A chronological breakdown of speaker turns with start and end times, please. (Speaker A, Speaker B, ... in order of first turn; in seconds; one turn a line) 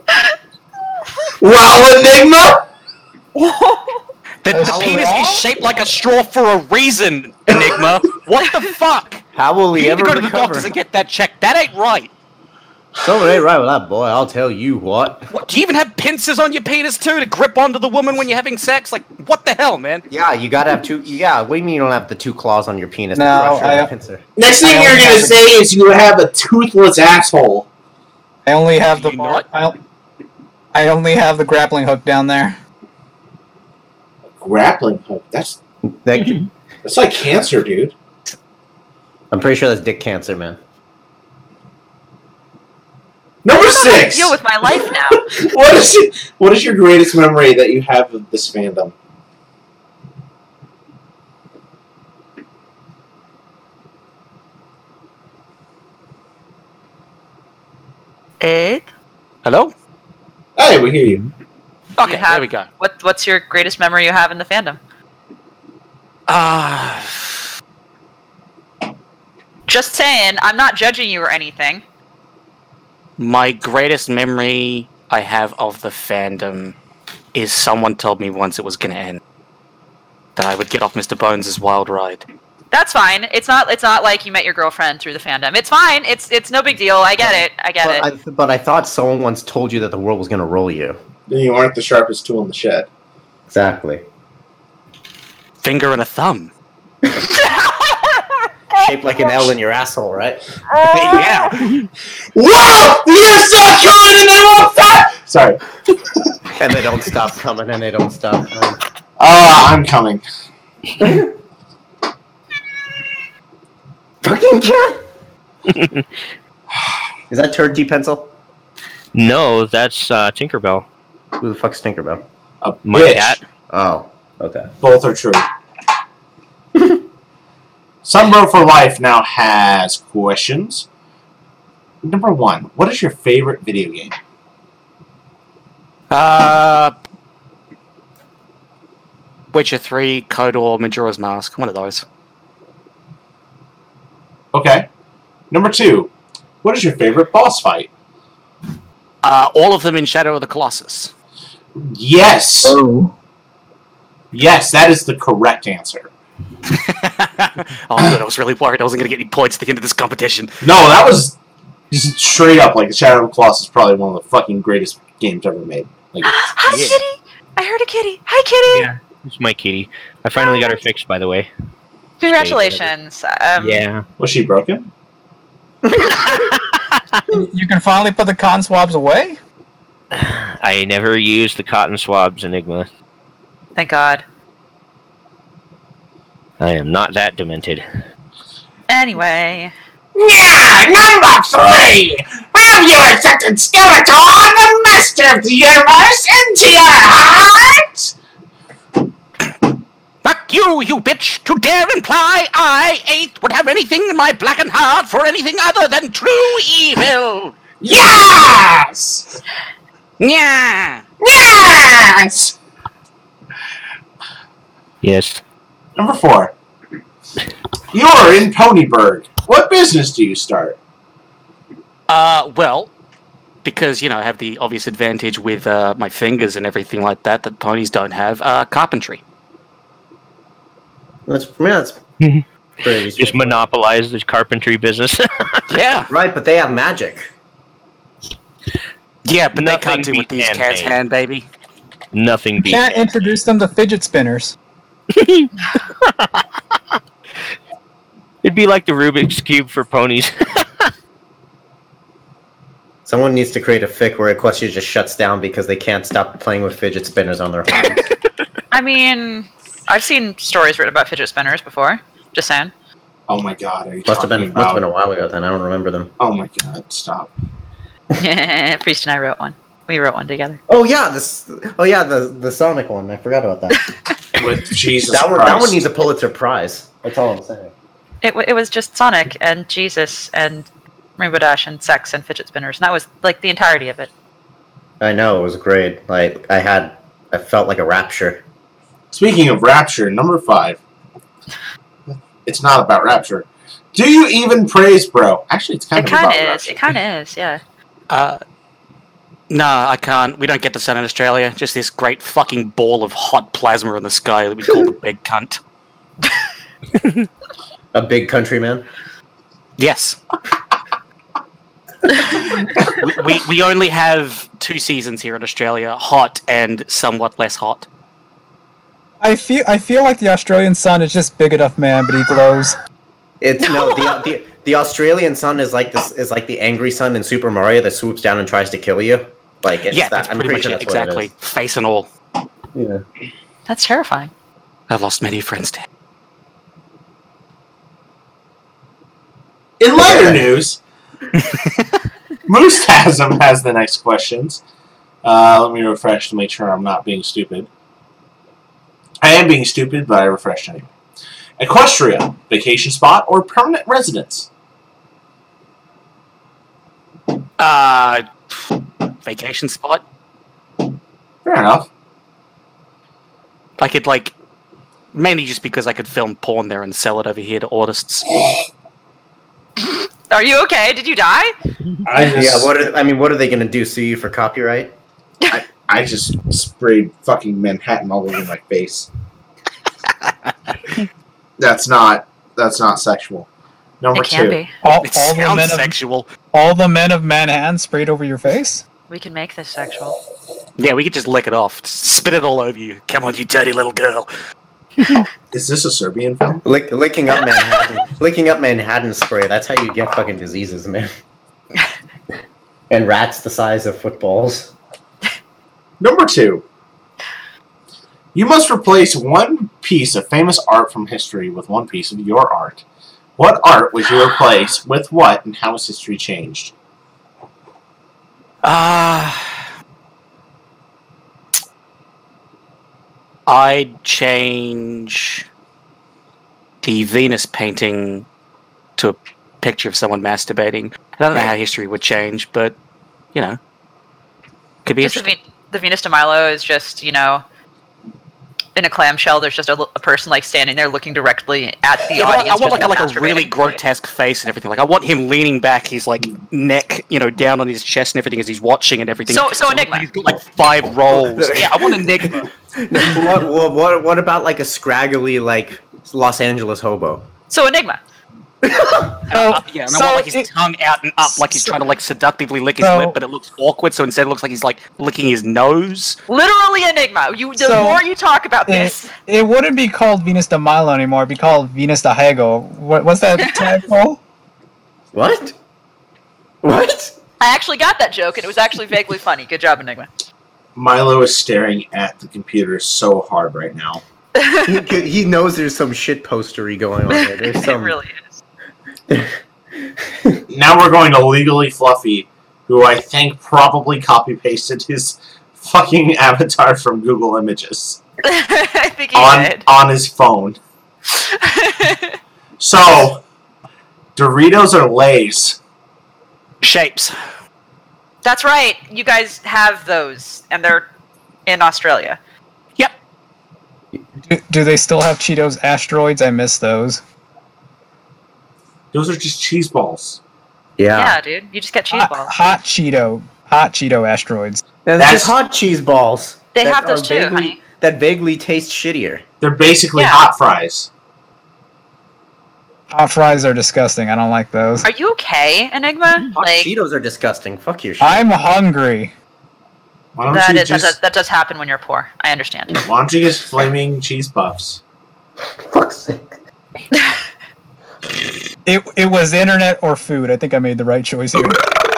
Speaker A: 1.4-2.6
Speaker B: 3.3-4.0
Speaker C: 4.4-9.2
Speaker D: 4.5-5.4
Speaker E: 4.6-5.2
Speaker E: 9.3-10.7
Speaker C: 9.8-12.1
Speaker E: 13.0-15.3
Speaker C: 15.3-20.0
Speaker E: 20.1-24.2
Speaker D: 23.1-23.9
Speaker A: 24.4-27.7
Speaker D: 24.6-25.4
Speaker D: 28.4-29.8
Speaker C: 28.9-29.4
Speaker D: 30.7-32.6
Speaker A: 34.3-35.6
Speaker E: 35.8-36.5
Speaker A: 36.8-37.9
Speaker E: 39.3-40.6
Speaker A: 43.4-48.9
Speaker B: 43.5-45.2
Speaker B: 58.4-58.9
Speaker C: 59.4-59.7
Speaker A: 60.6-61.3
Speaker C: 62.0-62.7
Speaker B: 62.0-64.8
Speaker C: 66.3-67.4
Speaker B: 69.7-71.8
Speaker C: 73.2-76.7
Speaker C: 77.3-79.2
Speaker C: 80.3-82.2
Speaker B: 82.7-88.1
Speaker E: 87.2-91.0
Speaker A: 91.3-92.9
Speaker E: 93.5-94.0
Speaker C: 95.6-96.5
Speaker E: 98.7-100.4
Speaker C: 100.8-101.8
Speaker A: 102.3-106.2
Speaker E: 106.5-108.8
Speaker A: 109.2-110.2
Speaker E: 111.0-111.3
Speaker E: 114.2-115.0
Speaker F: 115.7-116.0
Speaker E: 117.3-118.3
Speaker F: 119.1-120.9
Speaker E: 121.4-122.2
Speaker A: 122.6-123.4
Speaker F: 122.8-123.4
Speaker E: 123.7-124.7
Speaker A: 124.8-125.5
Speaker E: 126.7-127.0
Speaker A: 128.0-130.8
Speaker A: 132.0-134.1
Speaker C: 136.1-136.9
Speaker C: 139.5-142.0
Speaker A: 144.5-144.9
Speaker A: 145.5-146.1
Speaker A: 146.6-147.9
Speaker C: 149.2-151.1
Speaker A: 151.8-152.8
Speaker D: 152.6-153.1
Speaker A: 154.3-156.1
Speaker C: 156.7-160.5
Speaker A: 160.6-161.3
Speaker A: 161.9-166.4
Speaker B: 166.2-168.9
Speaker C: 166.7-167.0
Speaker F: 168.7-171.5
Speaker B: 170.3-170.8
Speaker B: 172.2-173.8
Speaker F: 172.2-172.9
Speaker F: 173.6-174.1
Speaker A: 174.2-174.9
Speaker D: 177.3-179.4
Speaker F: 180.1-182.9
Speaker B: 183.8-184.2
Speaker F: 186.6-187.8
Speaker B: 188.9-189.7
Speaker A: 190.1-198.1
Speaker C: 200.2-207.6
Speaker A: 207.8-209.3
Speaker C: 210.2-211.0
Speaker A: 211.2-212.5
Speaker F: 215.0-215.4
Speaker A: 215.9-216.5
Speaker A: 217.9-220.8
Speaker C: 222.1-222.9
Speaker C: 223.6-229.2
Speaker E: 231.3-232.0
Speaker E: 232.8-233.6
Speaker F: 233.2-235.7
Speaker C: 235.7-236.1
Speaker E: 236.1-237.3
Speaker C: 239.2-241.4
Speaker F: 239.5-240.9
Speaker F: 242.1-242.9
Speaker D: 242.6-244.5
Speaker F: 245.1-246.4
Speaker F: 248.4-250.9
Speaker E: 253.1-258.0
Speaker B: 258.7-262.7
Speaker A: 263.3-264.8
Speaker E: 264.0-266.1
Speaker A: 266.2-267.3
Speaker B: 268.2-270.6
Speaker E: 270.7-273.8
Speaker A: 274.3-275.8
Speaker E: 275.1-277.7
Speaker B: 278.2-284.1
Speaker E: 285.0-288.4
Speaker A: 289.1-290.8
Speaker A: 292.1-296.8
Speaker B: 295.9-297.6
Speaker C: 298.1-298.4
Speaker C: 299.5-305.6
Speaker E: 307.9-308.8
Speaker C: 309.8-310.2
Speaker C: 312.3-317.9
Speaker D: 319.2-322.8
Speaker E: 323.4-331.3
Speaker B: 323.6-324.2
Speaker C: 329.9-332.1
Speaker E: 332.7-333.0
Speaker B: 333.7-334.3
Speaker C: 334.9-335.9
Speaker A: 339.8-340.8
Speaker E: 339.9-340.5
Speaker A: 342.5-344.6
Speaker A: 345.2-347.7
Speaker A: 349.2-350.9
Speaker A: 351.6-354.5
Speaker C: 357.6-360.0
Speaker A: 361.4-361.9
Speaker C: 363.8-364.3
Speaker C: 365.1-368.4
Speaker B: 369.8-371.5
Speaker A: 372.0-372.7
Speaker E: 372.3-374.9
Speaker A: 375.5-379.1
Speaker A: 381.6-383.5
Speaker A: 384.0-384.6
Speaker B: 384.1-384.7
Speaker D: 384.8-385.9
Speaker C: 384.9-386.3
Speaker D: 386.5-388.8
Speaker B: 389.1-390.2
Speaker C: 390.8-394.3
Speaker A: 395.5-396.6
Speaker E: 396.6-401.1
Speaker E: 402.9-404.7
Speaker A: 406.0-406.6
Speaker A: 408.3-412.8
Speaker A: 413.4-416.7
Speaker C: 418.6-419.5
Speaker C: 423.5-425.4
Speaker C: 426.8-428.2
Speaker C: 429.0-432.8
Speaker C: 434.8-435.3
Speaker B: 435.0-437.4
Speaker B: 438.8-443.8
Speaker C: 442.1-452.5
Speaker B: 449.3-450.1
Speaker E: 451.1-457.3
Speaker B: 457.5-458.0
Speaker E: 458.7-459.1
Speaker D: 459.3-460.5
Speaker C: 459.3-466.2
Speaker D: 461.3-461.7
Speaker D: 462.8-463.2
Speaker B: 466.3-469.1
Speaker D: 467.6-468.0
Speaker D: 468.7-474.2
Speaker E: 475.1-475.5
Speaker E: 476.6-477.1
Speaker B: 477.4-480.1
Speaker A: 480.8-484.0
Speaker B: 484.4-484.7
Speaker E: 484.6-488.0
Speaker B: 487.1-488.3
Speaker A: 490.5-498.0
Speaker B: 498.2-499.6
Speaker A: 499.1-500.6
Speaker B: 501.3-502.1
Speaker A: 502.6-503.2
Speaker A: 504.1-505.6
Speaker C: 506.6-507.1
Speaker B: 508.2-510.9
Speaker B: 511.4-512.2
Speaker D: 514.2-517.0
Speaker A: 518.9-520.2
Speaker E: 520.8-521.2
Speaker B: 520.9-522.3
Speaker D: 521.9-524.6
Speaker E: 524.8-529.2
Speaker A: 525.0-525.3
Speaker B: 526.5-527.6
Speaker A: 529.4-530.9
Speaker B: 529.9-530.2
Speaker D: 532.9-534.9
Speaker B: 534.8-536.7
Speaker E: 536.3-538.2
Speaker D: 538.0-539.1
Speaker A: 540.1-541.0
Speaker B: 540.3-542.8
Speaker A: 542.8-544.8
Speaker E: 545.6-546.2
Speaker D: 548.6-551.6